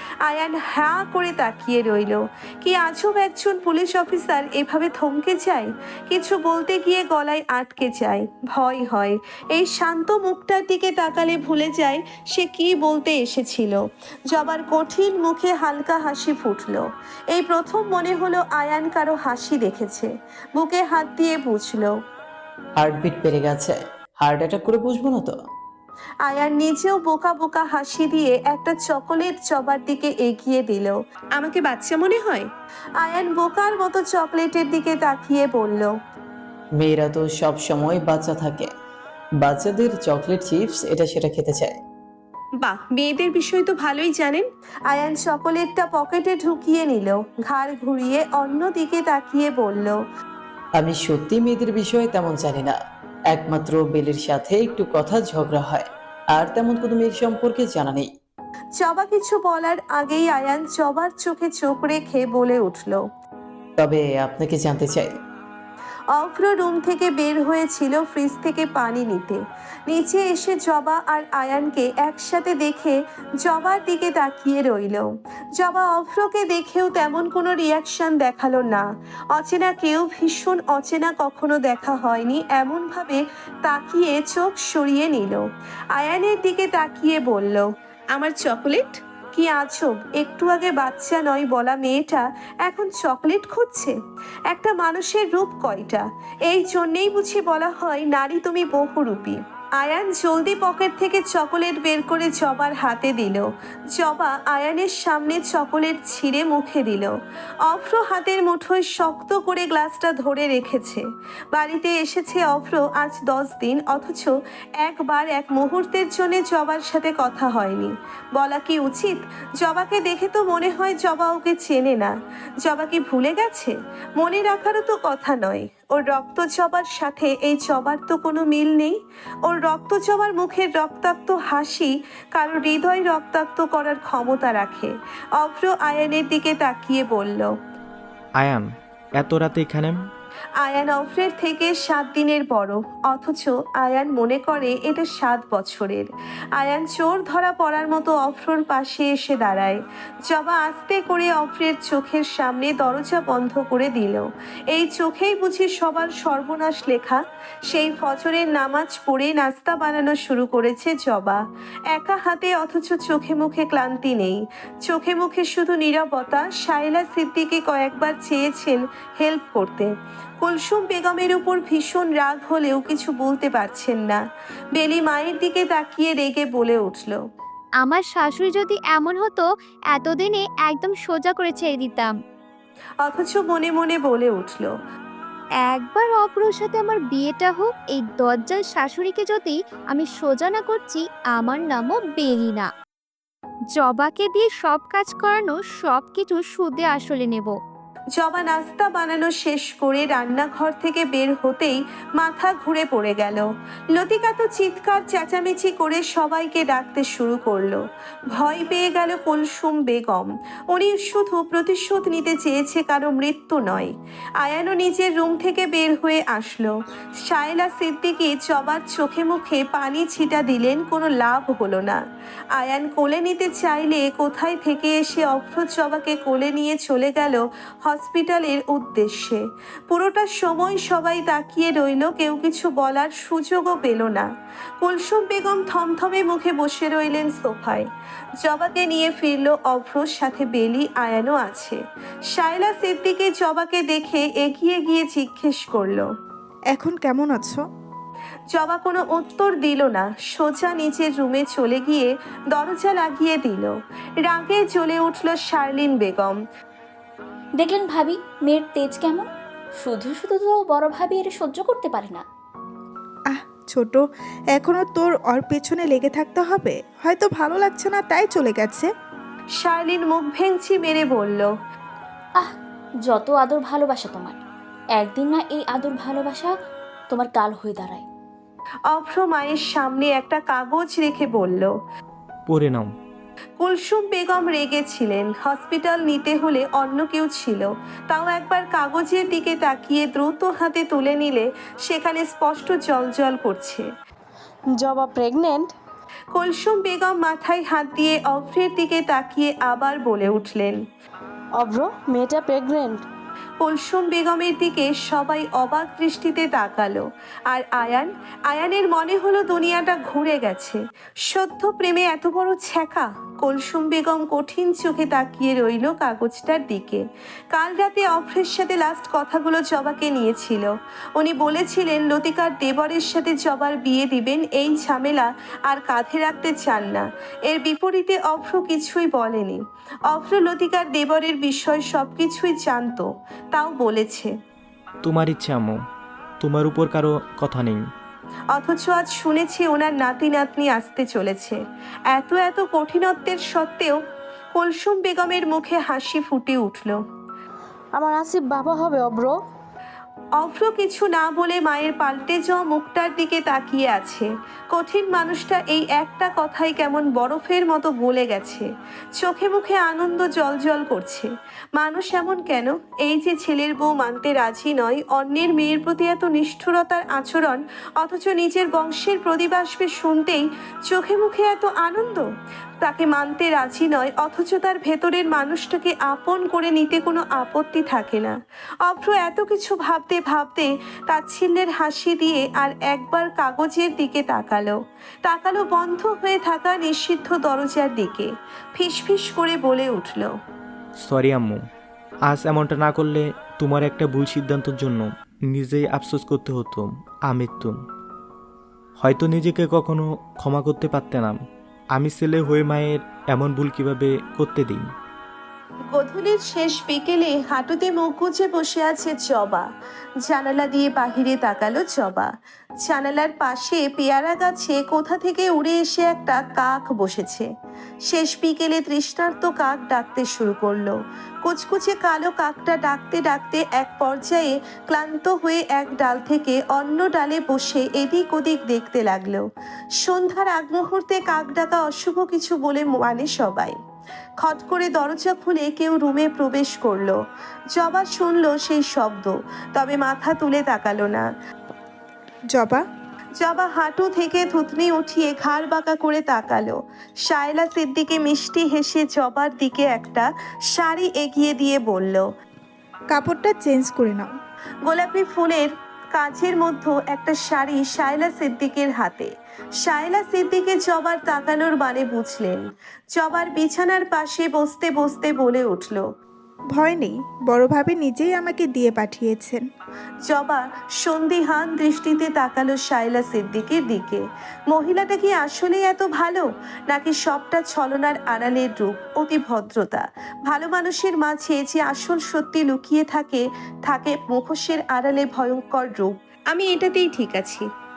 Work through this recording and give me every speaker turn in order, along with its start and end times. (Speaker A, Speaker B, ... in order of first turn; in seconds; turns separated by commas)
Speaker A: 0.2-21.9, Speaker B: 22.8-25.4, Speaker A: 26.2-32.5, Speaker A: 33.0-35.9, Speaker B: 36.8-38.7, Speaker B: 39.4-41.8, Speaker A: 42.6-50.0, Speaker B: 50.8-52.8, Speaker B: 53.3-58.1, Speaker A: 58.8-63.0, Speaker B: 63.8-65.1, Speaker A: 66.1-93.9, Speaker A: 94.5-107.1, Speaker A: 107.7-111.0, Speaker A: 111.5-137.5, Speaker C: 138.4-138.7, Speaker C: 139.2-140.0, Speaker A: 140.6-161.4, Speaker A: 161.9-174.2, Speaker A: 174.8-177.2, Speaker D: 177.8-182.1, Speaker A: 183.0-184.7, Speaker D: 185.7-192.7, Speaker D: 193.8-197.6, Speaker A: 198.2-207.8, Speaker A: 208.3-222.0, Speaker A: 222.6-234.3, Speaker A: 234.8-237.9, Speaker A: 238.4-241.8, Speaker A: 242.3-246.1, Speaker E: 246.7-247.6, Speaker A: 248.5-253.7, Speaker A: 254.2-256.4, Speaker F: 257.6-259.3, Speaker F: 259.8-262.2, Speaker E: 263.3-264.0, Speaker E: 264.5-268.9, Speaker A: 269.6-271.5, Speaker F: 273.1-274.4, Speaker F: 274.9-276.5, Speaker F: 277.1-278.1, Speaker A: 278.9-281.7, Speaker C: 282.5-282.9, Speaker A: 283.6-293.9, Speaker G: 294.8-295.7, Speaker A: 296.3-300.8, Speaker G: 301.6-303.0, Speaker A: 303.6-329.6, Speaker A: 330.1-334.3, Speaker C: 335.0-335.8, Speaker C: 336.4-337.8, Speaker A: 338.5-341.6, Speaker A: 342.1-344.0, Speaker A: 344.5-347.0, Speaker G: 347.9-349.4, Speaker A: 350.4-358.7, Speaker A: 359.2-372.3, Speaker A: 372.8-390.3, Speaker C: 391.0-391.6, Speaker C: 392.3-397.8, Speaker C: 399.0-401.4, Speaker C: 401.9-404.9, Speaker A: 405.9-409.7, Speaker A: 410.3-412.3, Speaker A: 412.8-417.5, Speaker A: 418.1-429.5, Speaker A: 430.0-433.8, Speaker A: 434.4-437.2, Speaker A: 437.7-441.2, Speaker E: 442.5-442.8, Speaker A: 443.4-452.2, Speaker E: 453.1-454.3, Speaker A: 454.9-459.3, Speaker A: 459.8-462.6, Speaker A: 463.1-466.0, Speaker E: 466.7-469.6, Speaker A: 470.3-487.7